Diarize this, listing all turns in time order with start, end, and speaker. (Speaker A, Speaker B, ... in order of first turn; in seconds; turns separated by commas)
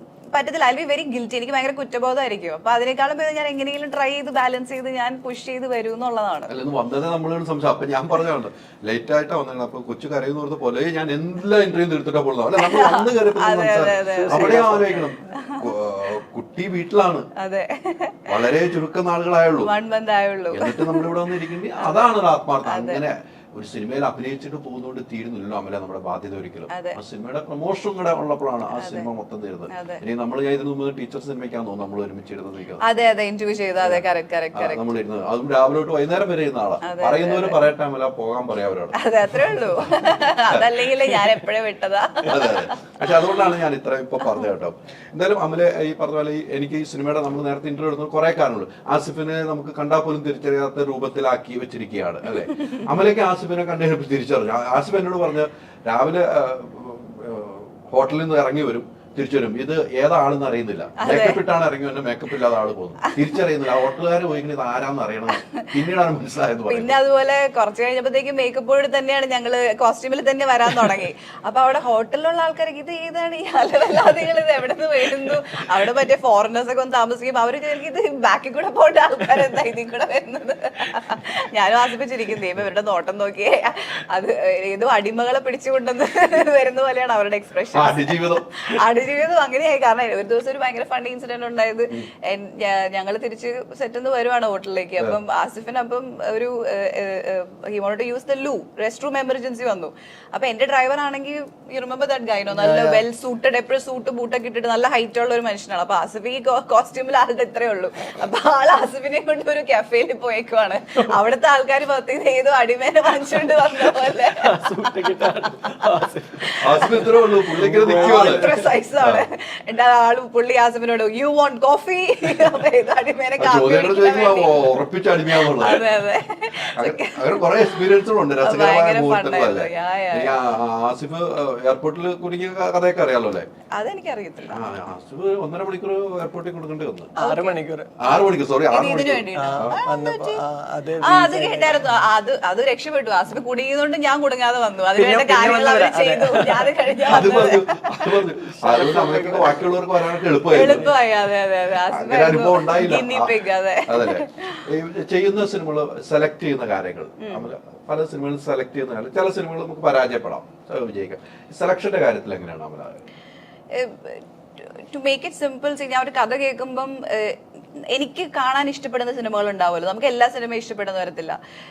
Speaker A: 0.3-6.5, Speaker B: 6.5-17.3, Speaker A: 12.6-14.7, Speaker C: 14.2-15.1, Speaker A: 15.2-15.7, Speaker A: 17.4-18.5, Speaker B: 18.3-19.7, Speaker A: 19.6-23.0, Speaker B: 20.5-32.8, Speaker A: 26.7-27.0, Speaker A: 28.8-29.1, Speaker A: 29.7-30.0, Speaker A: 32.8-34.8, Speaker B: 33.8-41.3, Speaker A: 36.8-37.7, Speaker A: 39.0-43.6, Speaker B: 42.2-67.0, Speaker A: 44.2-44.5, Speaker A: 52.3-52.9, Speaker A: 61.0-61.4, Speaker A: 63.0-63.4, Speaker A: 65.3-65.7, Speaker A: 66.7-114.7, Speaker B: 87.7-88.8, Speaker C: 102.5-103.0, Speaker C: 114.3-118.7, Speaker B: 116.6-118.5, Speaker A: 116.8-117.1, Speaker A: 117.8-130.4, Speaker B: 119.0-119.2, Speaker B: 123.4-125.9, Speaker B: 126.6-133.5, Speaker A: 133.8-134.7, Speaker B: 134.5-137.1, Speaker C: 137.2-137.9, Speaker A: 137.2-140.4, Speaker B: 138.0-139.8, Speaker C: 139.3-141.9, Speaker A: 141.0-148.0, Speaker C: 144.9-149.8, Speaker B: 147.1-150.9, Speaker A: 150.5-154.7, Speaker C: 150.6-150.9, Speaker B: 151.9-153.3, Speaker B: 153.9-163.0, Speaker A: 157.2-157.5, Speaker A: 163.7-167.4, Speaker A: 167.9-171.4